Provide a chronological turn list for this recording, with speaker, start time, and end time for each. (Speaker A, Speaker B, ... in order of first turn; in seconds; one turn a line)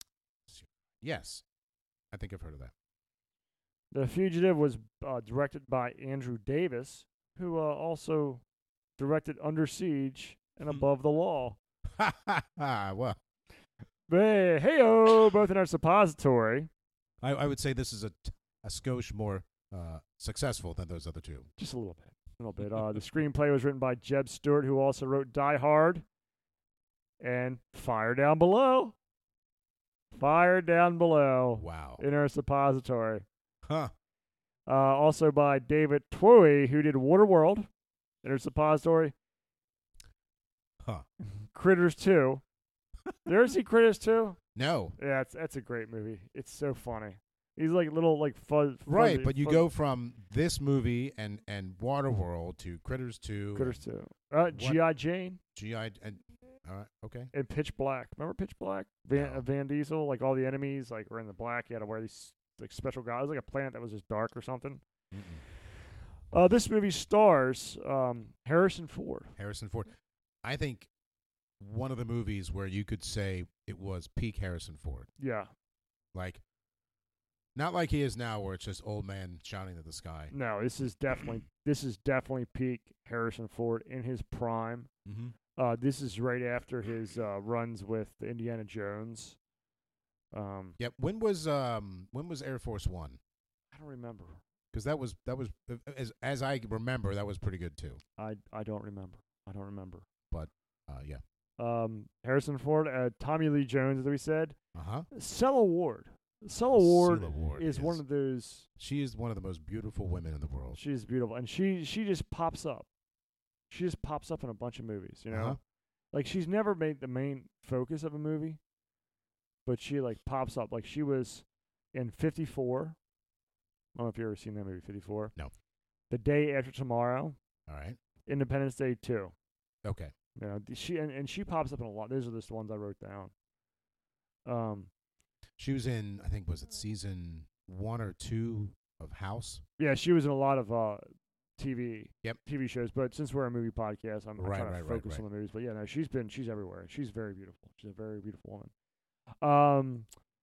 Speaker A: 0.5-1.4
Speaker A: 2.1-2.7
Speaker B: 3.9-8.4
Speaker B: 9.0-11.6
Speaker A: 12.0-13.2
Speaker B: 14.1-16.7
Speaker A: 17.2-21.5
Speaker B: 21.6-26.1
Speaker B: 27.2-28.9
Speaker B: 30.2-33.2
Speaker A: 31.6-32.0
Speaker A: 33.6-33.9
Speaker B: 34.7-37.7
Speaker B: 38.2-39.1
Speaker B: 41.5-42.4
Speaker B: 43.2-44.4
Speaker A: 44.5-45.0
Speaker B: 45.0-49.6
Speaker A: 48.9-53.8
Speaker B: 53.5-55.4
Speaker A: 54.5-54.8
Speaker A: 55.5-57.3
Speaker B: 57.3-64.8
Speaker A: 59.2-59.4
Speaker A: 65.1-65.4
Speaker B: 66.3-69.3
Speaker A: 69.4-69.9
Speaker A: 70.4-70.9
Speaker A: 71.6-75.1
Speaker B: 75.2-75.5
Speaker A: 76.1-76.4
Speaker A: 77.5-80.3
Speaker B: 80.3-84.9
Speaker A: 85.1-85.3
Speaker B: 85.6-89.4
Speaker B: 90.3-90.8
Speaker A: 90.8-93.2
Speaker B: 93.7-94.4
Speaker A: 94.7-98.0
Speaker B: 98.2-100.0
Speaker A: 100.3-101.2
Speaker B: 101.6-104.5
Speaker A: 104.8-105.1
Speaker B: 105.1-108.7
Speaker A: 106.8-108.0
Speaker A: 108.8-110.8
Speaker B: 110.7-112.9
Speaker B: 113.7-115.6
Speaker A: 115.3-115.6
Speaker B: 116.1-118.6
Speaker B: 119.7-123.0
Speaker B: 124.0-125.3
Speaker B: 126.1-127.4
Speaker A: 127.7-128.0
Speaker B: 128.3-129.3
Speaker A: 129.8-130.1
Speaker B: 130.4-133.3
Speaker B: 134.5-134.9
Speaker A: 135.6-139.6
Speaker B: 139.8-148.7
Speaker A: 144.4-145.2
Speaker B: 149.4-150.1